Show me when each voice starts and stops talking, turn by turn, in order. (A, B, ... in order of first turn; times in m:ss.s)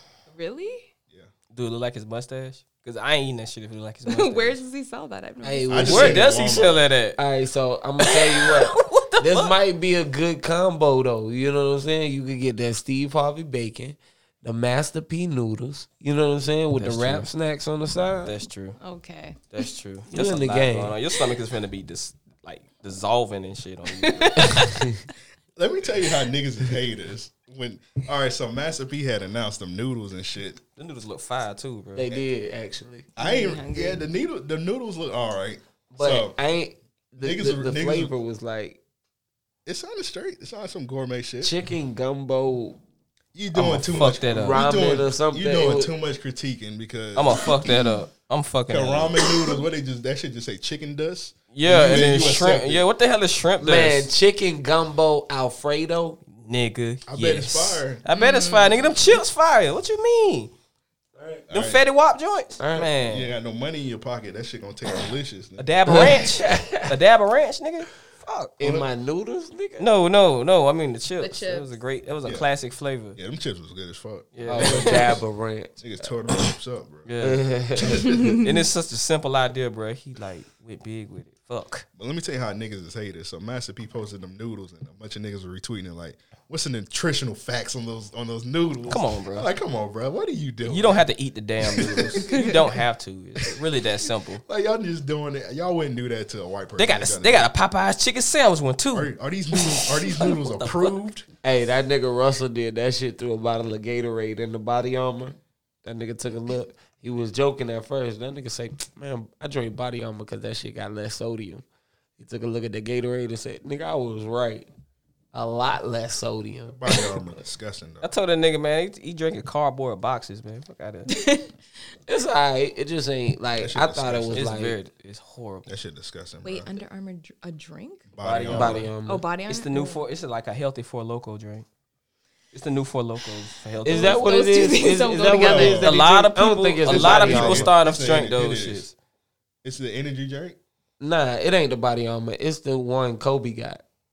0:00.3-0:00.9 A
0:01.5-0:04.6 B
0:04.0-0:06.2 A
0:05.4-0:06.2 C
0:05.7-0:06.8 D
0:05.8-0:07.2 B
0:07.2-0:18.3 C
0:08.0-0:09.5 B
0:16.8-0:17.3 B
0:18.2-0:18.8 B
0:18.8-0:19.4 A
0:19.5-0:24.6 B
0:20.1-0:20.9 C
0:23.9-0:24.7 A
0:24.6-0:25.0 C
0:25.6-0:30.6 D
0:30.8-0:32.1 B
0:32.0-0:33.1 C
0:33.2-0:36.4 D
0:33.2-0:34.0 A
0:35.9-0:38.8 C
0:37.2-0:38.1 D
0:39.6-0:41.5 D
0:41.4-0:42.8 C
0:43.3-0:47.7 D
0:43.5-0:44.6 B
0:44.3-0:45.9 C
0:47.2-0:49.2 B
0:48.7-0:52.8 D
0:51.5-0:54.1 B
0:53.6-0:56.2 C
0:56.3-1:00.5 B
0:57.1-0:58.0 D
0:58.1-0:59.0 A
1:01.5-1:01.8 D
1:01.5-1:03.3 B
1:02.6-1:02.9 C
1:03.0-1:06.2 D
1:05.6-1:08.5 B
1:05.9-1:06.9 C
1:08.6-1:09.8 C
1:08.6-1:08.9 D
1:09.8-1:13.2 B
1:11.2-1:11.7 A
1:12.2-1:12.5 D
1:13.1-1:15.2 D
1:14.3-1:15.0 B
1:14.4-1:16.4 C
1:15.8-1:17.1 D
1:17.0-1:17.4 B
1:17.2-1:18.2 C
1:17.8-1:18.3 D
1:18.4-1:21.8 B
1:22.0-1:31.0 D
1:28.9-1:29.5 B
1:30.6-1:34.4 B
1:31.6-1:32.6 D
1:32.3-1:32.6 A
1:34.4-1:37.5 D
1:36.8-1:41.0 B
1:38.9-1:41.2 D
1:41.4-1:51.6 C
1:52.2-1:54.7 C
1:55.3-1:56.8 C
1:56.7-1:58.1 D
1:58.0-2:01.1 B
2:01.1-2:01.5 A
2:02.1-2:04.8 C
2:03.6-2:04.4 D
2:04.3-2:05.7 B
2:05.7-2:06.7 D
2:06.4-2:08.1 A
2:08.1-2:08.9 D
2:08.2-2:08.9 B
2:08.5-2:09.2 C
2:09.0-2:10.0 A
2:09.5-2:11.6 B
2:12.5-2:14.3 B
2:13.8-2:17.7 C
2:14.0-2:15.8 A
2:15.3-2:16.0 D
2:15.7-2:18.9 B
2:16.8-2:18.8 D
2:19.6-2:20.6 D
2:21.0-2:23.8 C